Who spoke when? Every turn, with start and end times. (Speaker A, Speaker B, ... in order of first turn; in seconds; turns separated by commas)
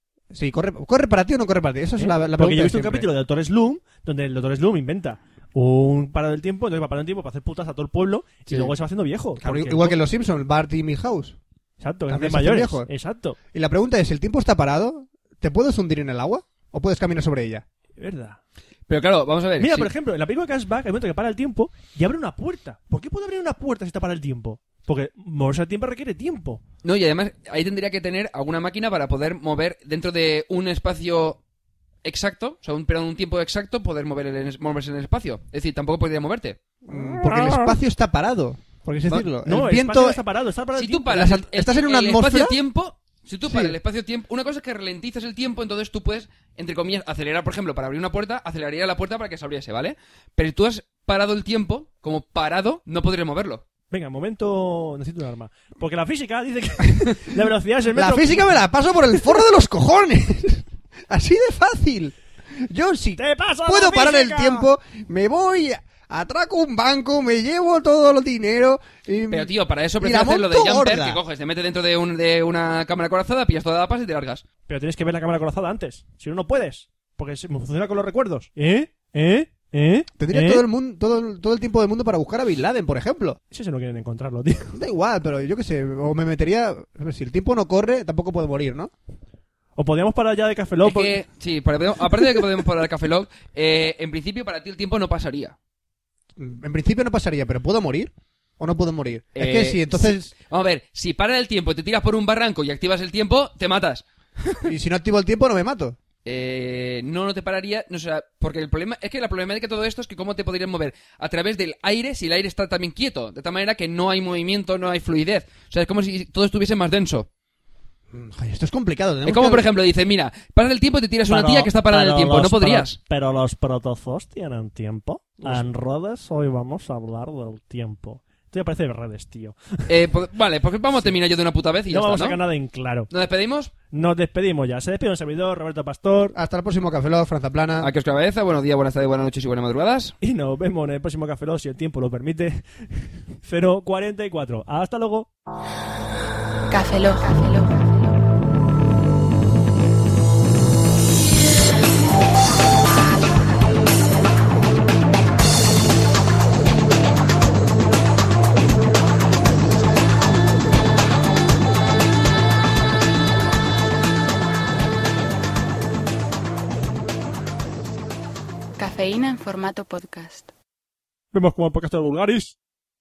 Speaker A: 0.3-3.1, Speaker B: 2.0-10.0, Speaker A: 9.4-11.4, Speaker B: 11.8-13.4, Speaker A: 12.1-12.9, Speaker A: 13.5-17.6, Speaker B: 18.0-18.4, Speaker C: 18.9-19.9, Speaker B: 19.6-26.6, Speaker C: 26.8-31.4, Speaker C: 32.0-36.6, Speaker A: 36.9-40.2, Speaker B: 37.2-37.7, Speaker B: 39.4-41.1, Speaker C: 40.7-53.6, Speaker A: 41.1-42.6, Speaker A: 43.5-43.8, Speaker B: 53.9-58.6, Speaker A: 57.9-71.2, Speaker B: 63.1-64.7, Speaker C: 69.3-74.4, Speaker B: 74.7-80.6, Speaker A: 80.2-83.4, Speaker B: 83.5-84.8, Speaker A: 84.7-88.9, Speaker B: 89.8-91.2, Speaker C: 90.8-95.5, Speaker A: 96.4-100.3, Speaker C: 99.3-104.7, Speaker A: 104.6-106.0, Speaker C: 106.2-117.3, Speaker A: 118.1-119.6, Speaker C: 119.2-123.0, Speaker B: 121.3-129.9, Speaker C: 129.9-132.4, Speaker B: 131.9-133.1, Speaker C: 133.1-133.7, Speaker B: 133.9-136.3, Speaker A: 136.3-137.9, Speaker C: 137.8-140.1, Speaker B: 140.2-142.6, Speaker B: 143.4-145.3, Speaker D: 146.7-148.2, Speaker D: 168.8-170.5, Speaker B: 171.3-172.6